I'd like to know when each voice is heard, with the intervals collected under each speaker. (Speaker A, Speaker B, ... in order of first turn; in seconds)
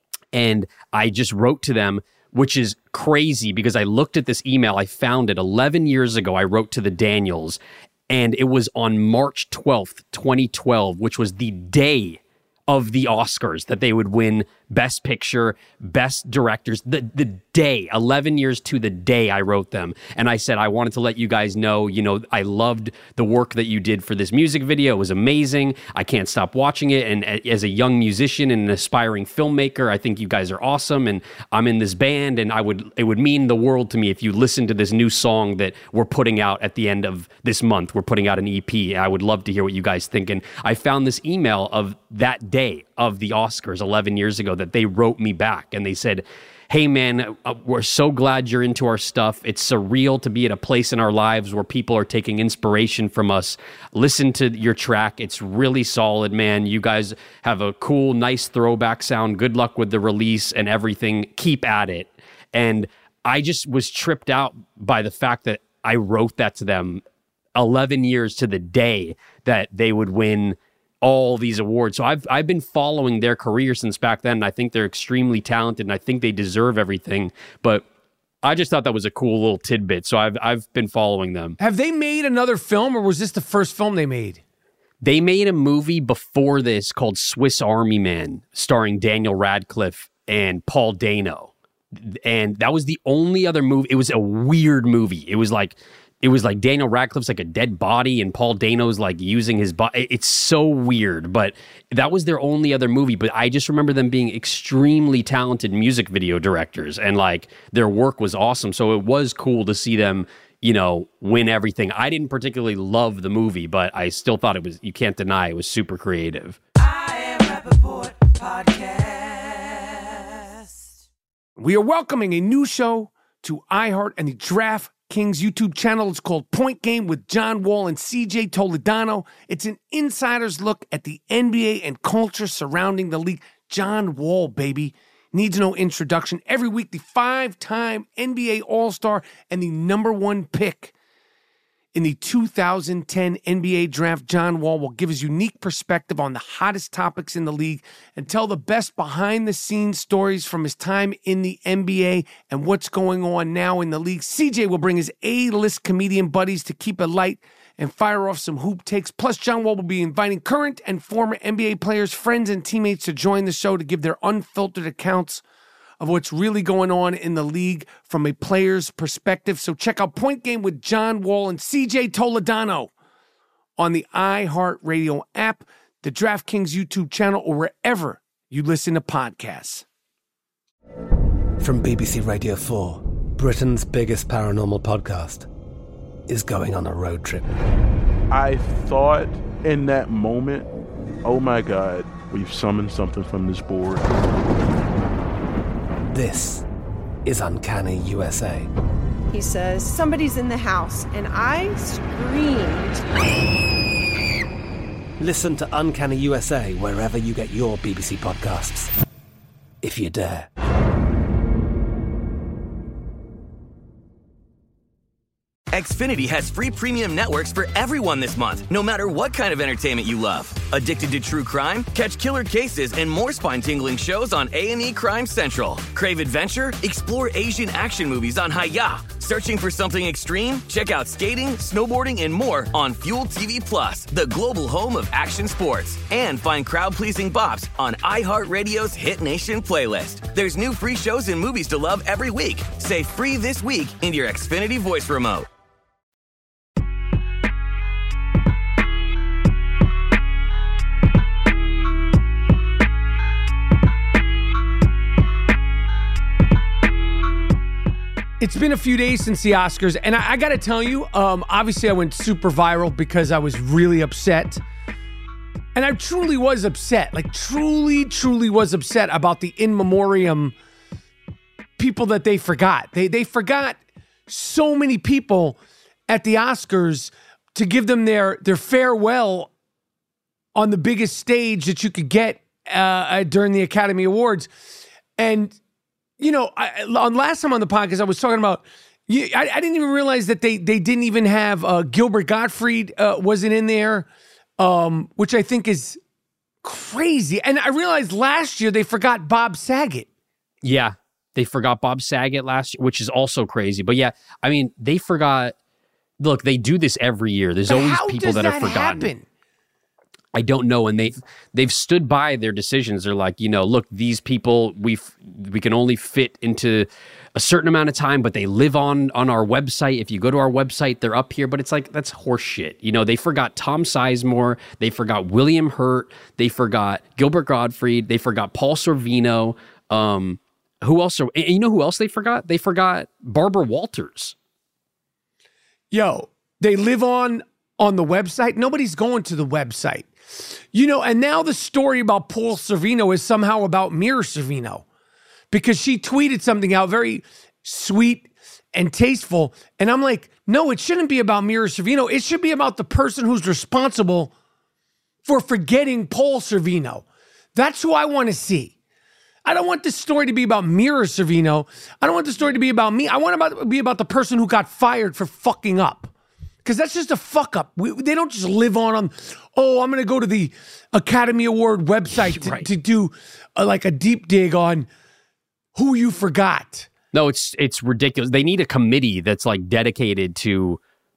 Speaker A: 0.3-67.0, 67.5-77.8, 78.4-81.6, 85.0-116.6, 300.6-305.5, 306.2-309.1, 310.3-334.3, 372.3-372.7, 377.1-380.8
Speaker B: 81.6-84.4, 121.6-140.9, 141.9-165.4, 166.0-172.9, 173.8-179.8, 258.4-264.6, 265.7-270.5, 271.8-279.5, 280.5-284.5, 285.2-285.6, 286.2-294.1, 294.6-296.0, 296.6-300.1, 307.7-309.2, 335.9-340.1, 340.7-344.8, 345.5-354.3, 355.2-358.7, 359.4-366.1, 366.6-374.9, 375.7-376.9
Speaker C: 181.6-185.5, 186.3-187.5, 196.1-196.7, 197.2-198.7, 205.2-208.9, 209.8-210.5
Speaker D: 188.3-190.7, 191.2-194.1
Speaker E: 199.3-203.0
Speaker F: 215.7-245.5